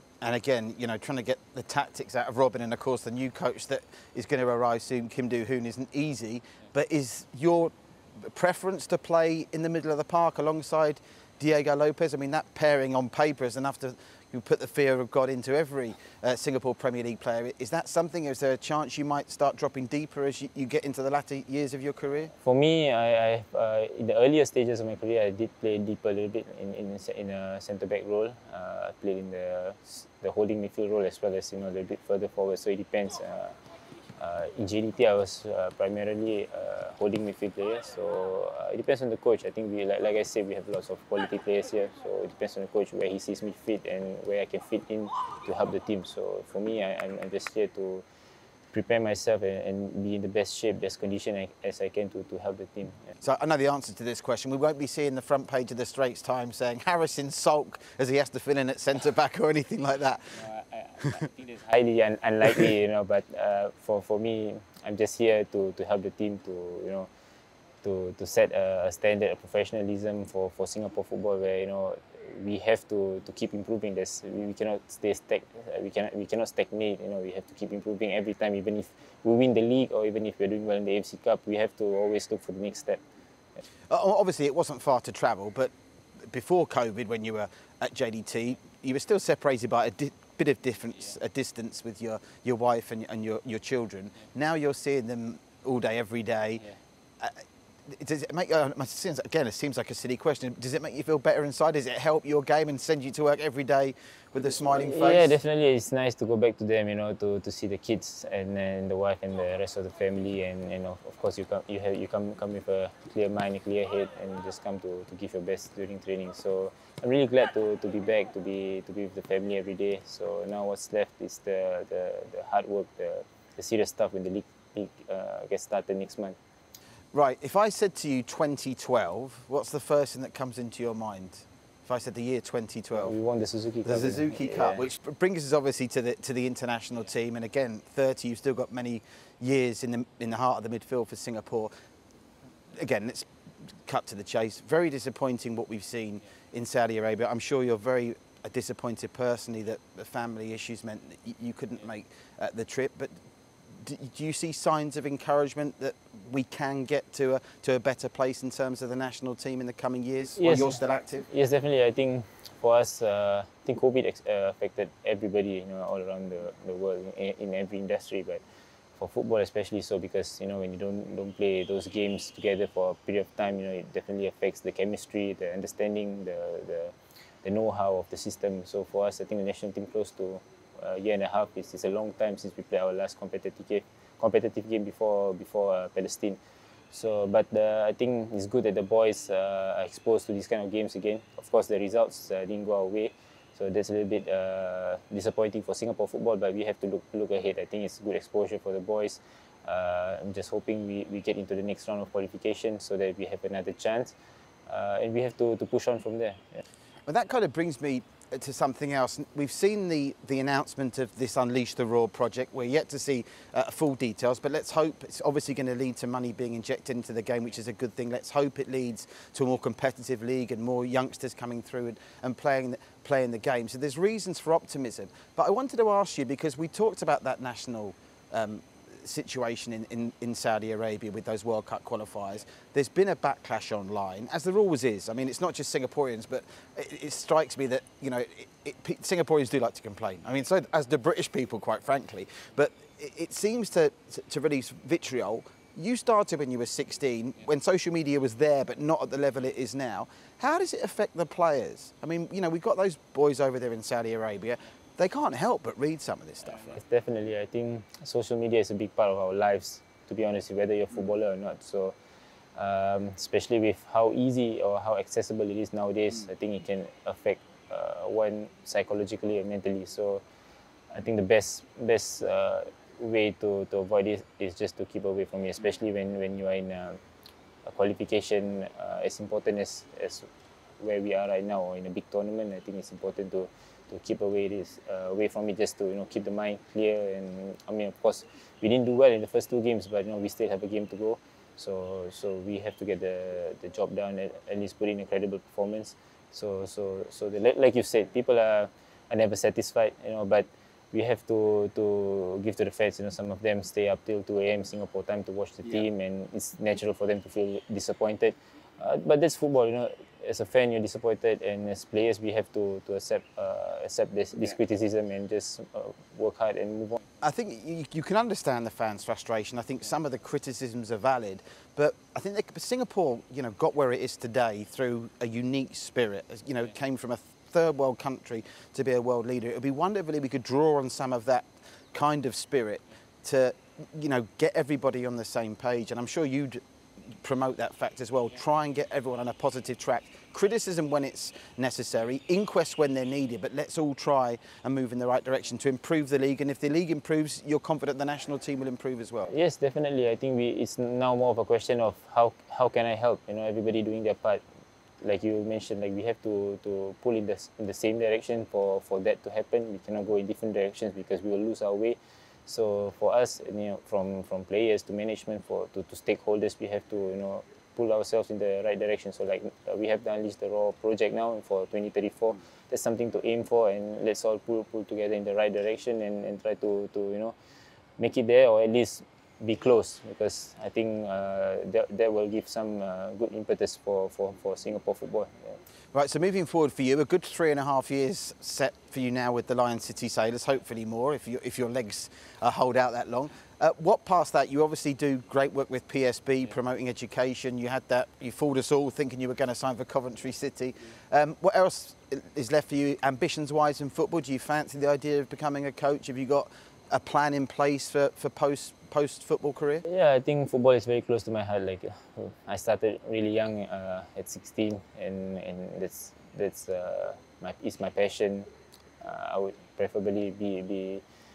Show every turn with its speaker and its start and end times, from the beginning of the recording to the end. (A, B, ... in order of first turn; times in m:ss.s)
0:00.2-0:22.3 A
0:22.4-0:33.6 B
0:34.2-0:48.0 B
0:48.7-0:53.1 B
0:53.2-1:00.4 A
1:00.5-1:07.1 B
1:07.8-1:23.0 B
1:23.9-1:25.7 A
1:26.2-1:36.6 A
1:37.2-1:45.3 A
1:44.7-2:06.4 B
2:07.1-2:13.1 A
2:13.0-2:14.8 B
2:13.8-2:21.7 A
2:22.7-2:23.3 A
2:23.8-2:33.1 A
2:33.8-2:41.2 A
2:40.4-2:48.4 B
2:49.0-3:06.4 B
3:06.9-3:24.1 B
3:24.7-3:26.6 B
3:27.1-4:16.7 A
4:16.5-4:21.9 B
4:22.6-4:30.2 B
4:30.9-4:37.0 B
4:37.6-4:40.3 B
4:40.8-5:17.0 B
5:17.2-5:36.6 A
5:37.2-5:49.3 A
5:49.3-5:54.4 B
5:55.0-6:17.3 B
6:18.0-6:25.6 B
6:25.9-6:49.8 A
6:49.8-6:58.5 B
6:59.0-7:01.0 B